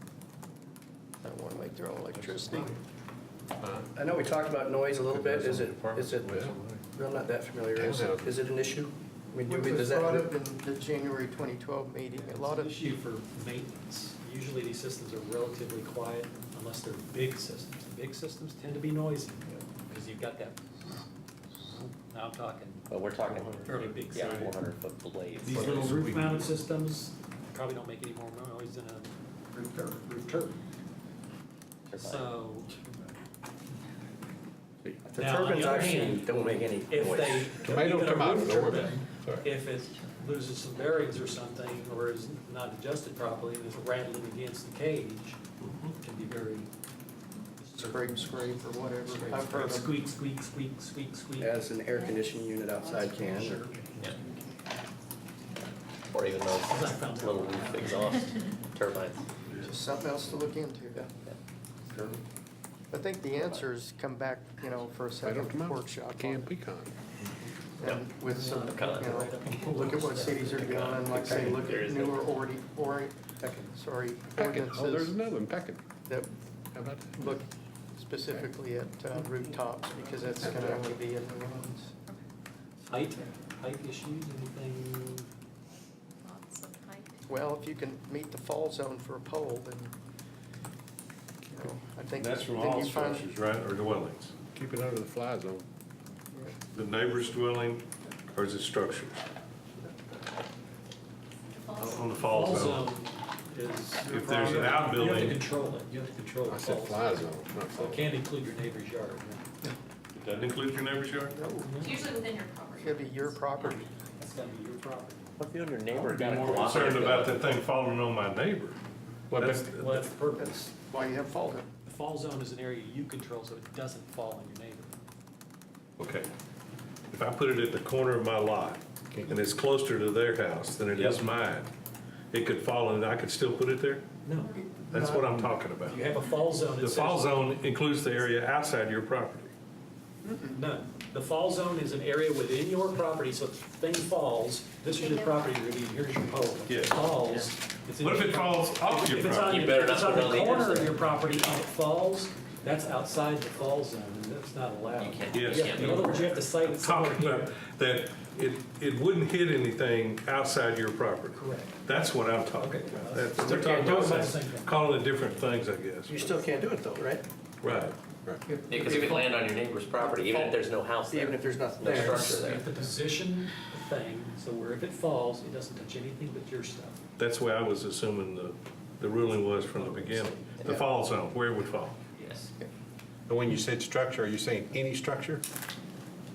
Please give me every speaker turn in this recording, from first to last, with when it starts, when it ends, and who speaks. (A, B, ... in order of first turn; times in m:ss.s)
0:01.2-0:02.7 A
0:03.6-0:03.9 B
0:04.0-0:10.3 C
0:05.1-0:06.6 B
0:07.7-0:08.4 B
0:09.5-0:12.7 A
0:12.2-0:20.6 D
0:21.7-0:22.9 D
0:22.9-0:25.9 E
0:23.6-0:24.6 D
0:25.4-0:29.1 D
0:25.5-0:26.5 B
0:29.5-0:29.8 A
0:29.7-0:30.6 D
0:31.9-0:32.3 E
0:32.0-0:32.8 D
0:35.0-0:37.6 C
0:35.2-0:36.2 D
0:36.9-0:45.4 D
0:37.6-0:39.4 B
0:45.6-0:45.9 F
0:46.0-0:46.7 D
0:47.6-0:48.2 D
0:47.8-0:50.0 A
0:49.1-0:51.6 D
0:51.4-0:53.6 C
0:51.9-0:52.2 G
0:53.2-0:53.9 D
0:56.1-0:59.2 E
0:56.5-0:58.2 D
0:59.6-1:01.1 A
1:02.9-1:06.5 A
1:05.2-1:07.0 B
1:07.8-1:15.2 A
1:08.2-1:10.8 D
1:08.7-1:12.2 E
1:14.3-1:15.8 B
1:16.7-1:17.4 B
1:17.2-1:21.9 A
1:20.4-1:20.8 B
1:22.9-1:25.3 D
1:26.2-1:27.1 G
1:27.3-1:29.9 A
1:31.5-1:33.3 A
1:32.2-1:34.3 F
1:34.5-1:35.6 B
1:36.7-1:39.2 F
1:41.5-1:42.2 G
1:41.7-1:42.8 F
1:42.2-1:49.4 D
1:44.0-1:45.4 F
1:46.5-1:48.1 B
1:50.1-1:51.4 F
1:51.3-1:51.9 A
1:51.6-1:52.0 D
1:51.8-1:53.9 G
1:52.8-1:53.9 A
1:54.2-1:55.3 D
1:55.4-1:57.4 E
1:55.9-1:58.8 F
1:59.3-1:59.7 B
1:59.3-2:00.1 F
1:59.7-2:00.7 D
2:00.3-2:01.7 A
2:01.8-2:05.0 D
2:06.0-2:06.3 F
2:07.1-2:11.7 F
2:10.9-2:11.2 E
2:12.3-2:14.1 F
2:14.2-2:14.6 D
2:14.5-2:15.4 A
2:14.9-2:16.1 F
2:15.8-2:17.5 D
2:16.8-2:19.5 F
2:20.2-2:20.5 A
2:20.5-2:37.6 D
2:25.0-2:25.5 G
2:26.7-2:27.0 F
2:28.0-2:29.7 F
2:29.4-2:31.0 E
2:35.0-2:36.4 E
2:35.3-2:46.4 F
2:41.3-2:41.8 D
2:42.6-2:44.8 D
2:43.4-2:44.3 C
2:46.1-2:47.2 C
2:47.6-2:47.9 F
2:48.7-2:52.6 E
2:48.8-2:49.1 C
2:48.9-2:49.2 A
2:51.1-2:52.6 C
2:51.8-2:57.0 D
2:57.2-3:02.0 F
2:59.8-3:00.3 D
3:02.2-3:02.5 D
3:03.3-3:05.4 B